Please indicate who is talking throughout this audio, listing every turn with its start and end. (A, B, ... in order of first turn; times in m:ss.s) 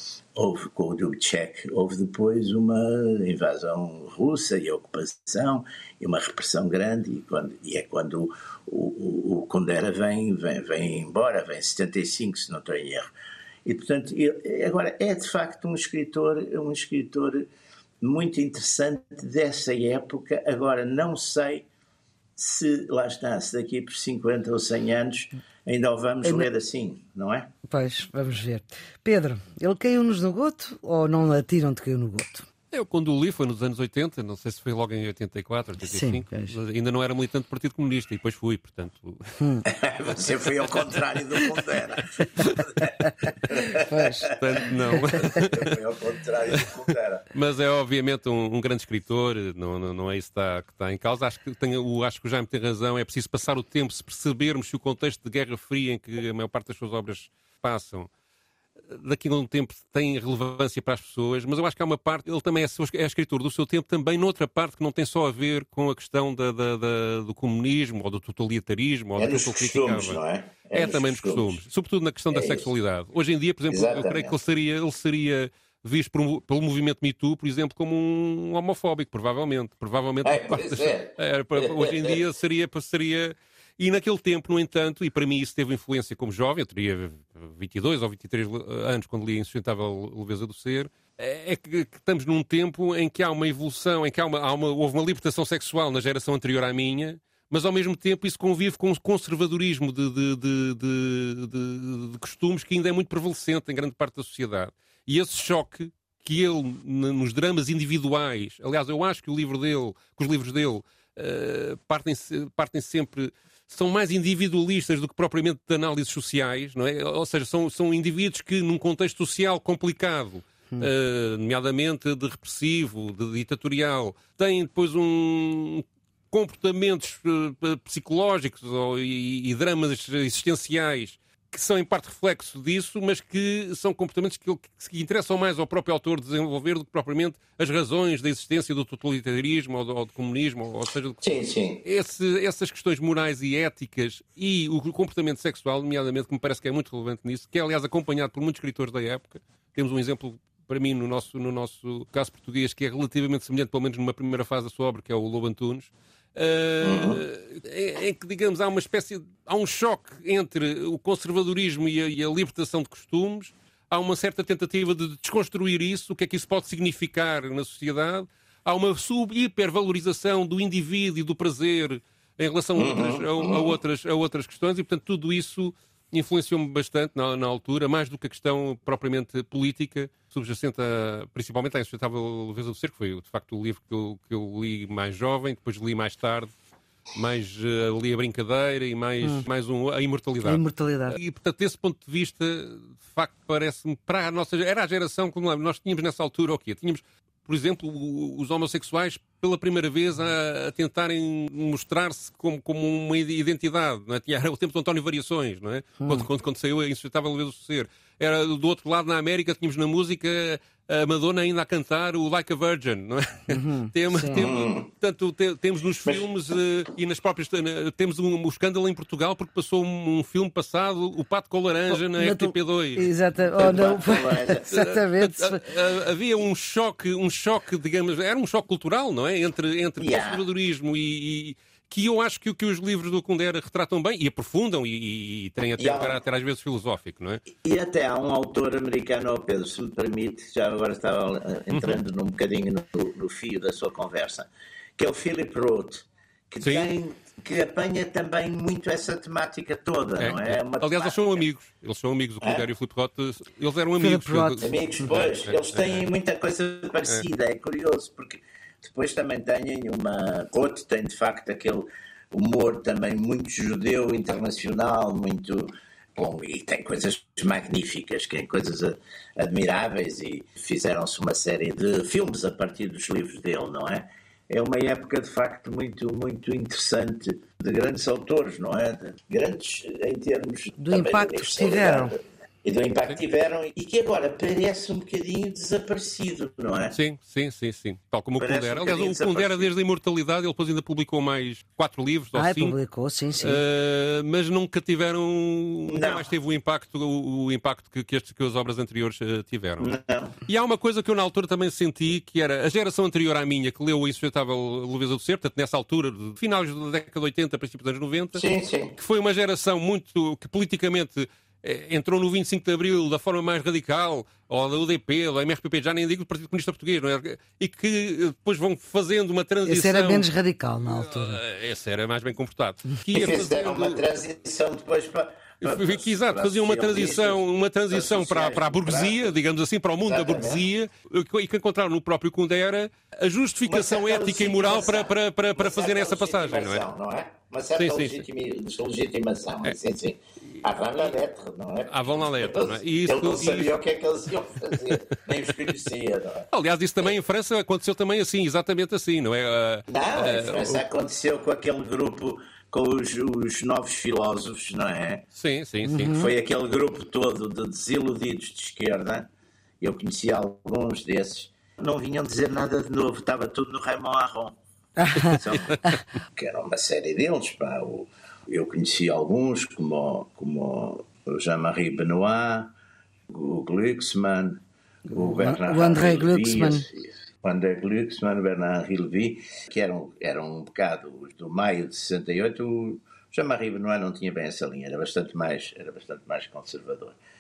0:00.4-0:13.1 A
0:13.6-0:17.5 A
0:18.0-0:21.7 A
0:22.4-0:27.5 A
0:27.7-0:32.5 B
0:32.7-0:39.4 C
0:35.8-0:36.6 B
0:39.4-0:39.6 B
0:39.7-0:44.4 A
0:43.5-0:44.3 B
0:44.3-0:45.8 C
0:45.1-0:47.3 A
0:47.3-0:58.1 C
0:58.9-1:10.2 C
1:09.2-1:11.6 A
1:10.7-3:06.5 C
1:12.3-1:12.7 A
1:13.7-1:14.4 A
1:20.2-1:22.2 A
2:21.2-2:21.8 A
2:36.8-2:37.2 A
2:52.8-2:53.8 A
3:07.2-3:43.1 C
3:10.4-3:11.2 B
3:26.0-3:26.3 B
3:33.5-3:34.5 B
3:34.3-3:34.8 A
3:41.9-3:45.6 B
3:43.6-3:44.6 A
3:44.1-3:57.4 C
3:50.0-3:50.4 A
3:55.8-3:56.2 A
3:57.6-4:11.4 A
4:01.7-4:02.0 C
4:06.6-4:06.9 C
4:10.2-4:16.0 C
4:14.0-4:14.6 B
4:14.6-4:47.0 A
4:40.8-4:42.2 B
4:46.9-4:52.8 C
4:48.4-4:49.7 A
4:52.4-4:53.6 B
4:53.4-5:20.3 C
4:55.9-4:56.3 A
4:59.8-5:00.4 A
5:08.4-5:08.9 A
5:19.7-5:21.4 B
5:20.8-5:24.0 C
5:23.1-5:27.4 A
5:25.6-5:36.8 C
5:27.9-5:29.3 A
5:30.1-5:30.6 A
5:33.7-5:46.5 A
5:37.8-5:38.2 C
5:41.9-5:43.8 C
5:46.5-5:50.8 C
5:49.9-5:55.2 A
5:55.4-5:56.1 C
5:55.9-5:56.3 B
5:56.2-5:59.2 A
5:59.8-6:04.5 A
6:05.0-6:06.0 B
6:05.3-6:06.0 C
6:05.3-6:05.7 A
6:06.4-6:12.7 A
6:13.3-6:14.6 A
6:15.1-6:16.9 B
6:15.2-6:27.2 A